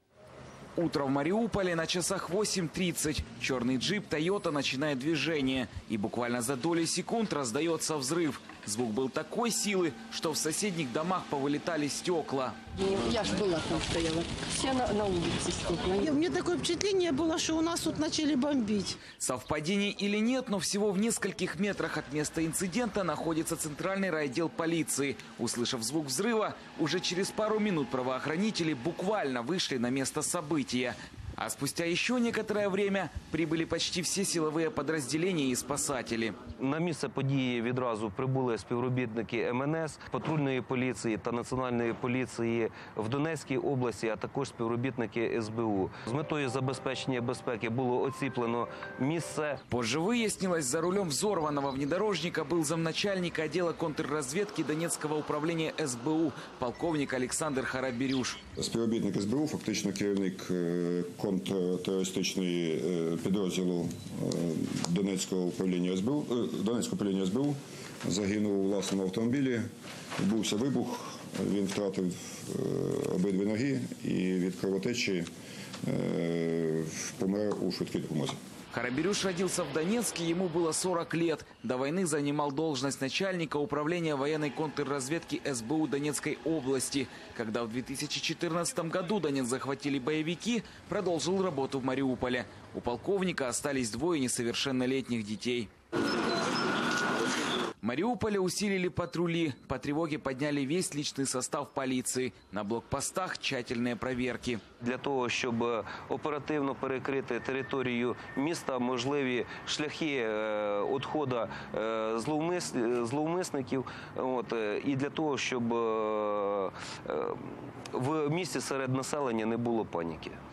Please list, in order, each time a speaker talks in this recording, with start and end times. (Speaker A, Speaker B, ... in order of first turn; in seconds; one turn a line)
Speaker A: 0.8-12.6
Speaker B: 12.8-16.3
Speaker C: 16.1-19.0
Speaker A: 19.1-36.4
Speaker D: 36.5-49.6
Speaker A: 49.7-58.4
Speaker E: 58.6-75.3
Speaker E: 75.8-78.4
Speaker A: 78.7-95.7
Speaker A: 97.8-104.6
Speaker D: 104.8-120.4